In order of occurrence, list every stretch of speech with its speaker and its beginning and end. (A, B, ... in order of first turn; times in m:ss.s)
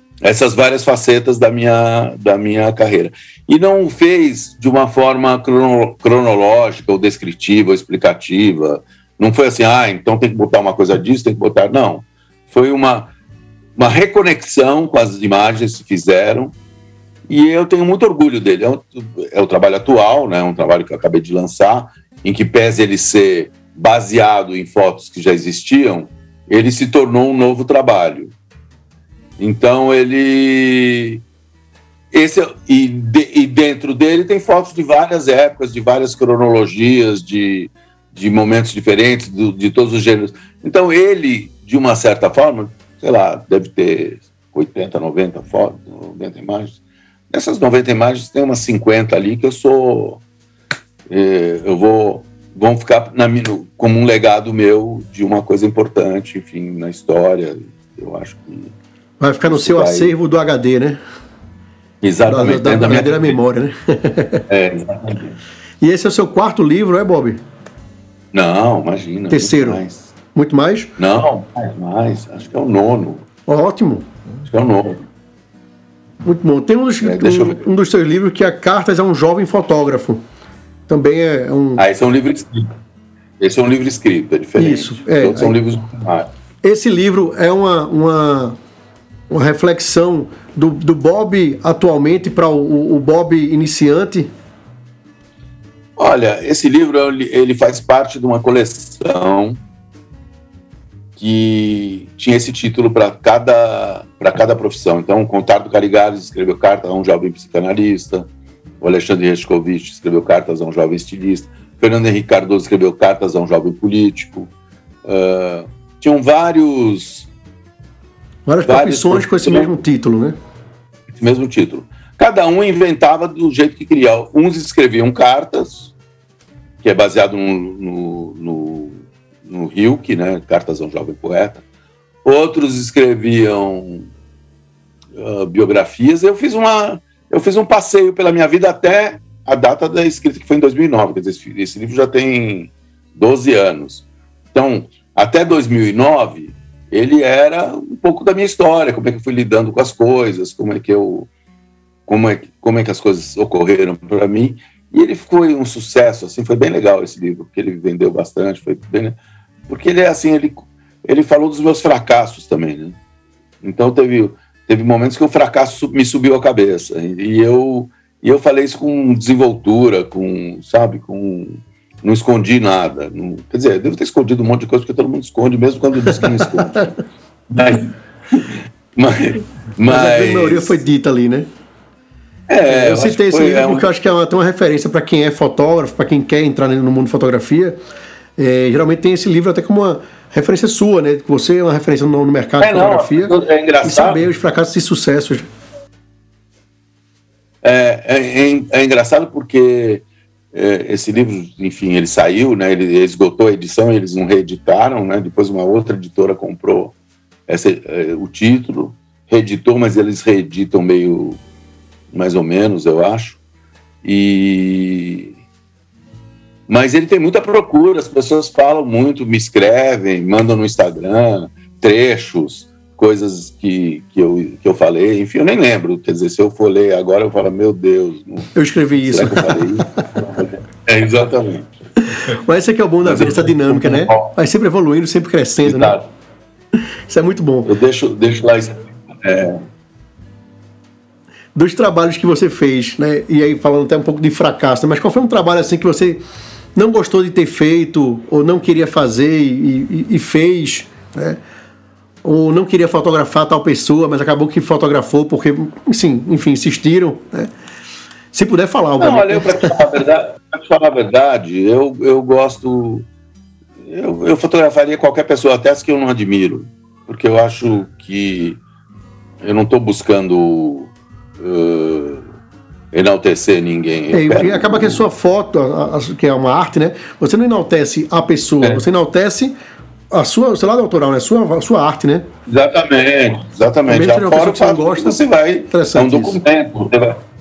0:00.2-0:13.1 A
0:13.8-0:16.5 A
0:17.3-0:28.3 A
0:29.4-0:31.2 A
0:32.1-0:46.8 A
0:47.3-0:50.2 A
0:51.1-0:58.8 A
0:59.2-1:01.0 B
0:59.4-1:00.2 A
1:02.0-1:03.4 A
1:02.3-1:04.4 B
1:04.5-1:05.4 A
1:05.8-1:07.4 B
1:08.3-1:10.0 A
1:09.3-1:09.8 B
1:10.3-1:10.9 B
1:11.0-1:13.2 A
1:13.5-1:14.0 B
1:14.4-1:15.0 A
1:16.2-1:20.2 B
1:17.0-1:17.6 A
1:20.9-1:21.8 B
1:21.8-1:22.7 A
1:23.4-1:26.3 A
1:24.6-1:25.6 B
1:26.6-1:28.6 B
1:29.3-1:34.3 B
1:36.0-1:39.6 A
1:41.2-1:48.3 A
1:48.8-1:54.5 A
1:55.0-1:57.3 A
1:58.4-2:00.3 B
1:58.6-1:59.7 A
2:01.1-2:05.9 A
2:06.8-2:11.6 A
2:12.2-2:14.1 A
2:15.1-2:31.3 A
2:32.0-2:43.0 A
2:43.6-2:56.9 A
2:57.5-3:00.8 A
2:59.8-3:01.5 B
3:02.5-3:03.9 A
3:02.6-3:07.8 B
3:08.4-3:15.4 B
3:12.6-3:14.2 A
3:17.6-3:27.0 A
3:27.5-3:31.4 A
3:32.1-3:33.4 A
3:34.0-3:35.3 A
3:36.7-3:51.7 A
3:48.5-3:49.9 B
3:52.1-3:56.0 B
3:53.0-3:54.3 A
3:55.6-3:56.1 A
3:57.1-3:57.7 B
3:57.6-3:59.6 A
4:01.5-4:06.2 B
4:06.8-4:11.4 B
4:12.2-4:17.5 B
4:18.3-4:19.7 B
4:19.0-4:23.1 A
4:23.8-4:28.6 A
4:29.4-4:32.2 A
4:32.9-4:35.0 A
4:34.1-4:39.5 B
4:40.1-4:42.3 B
4:42.5-4:47.2 A
4:43.9-4:46.4 B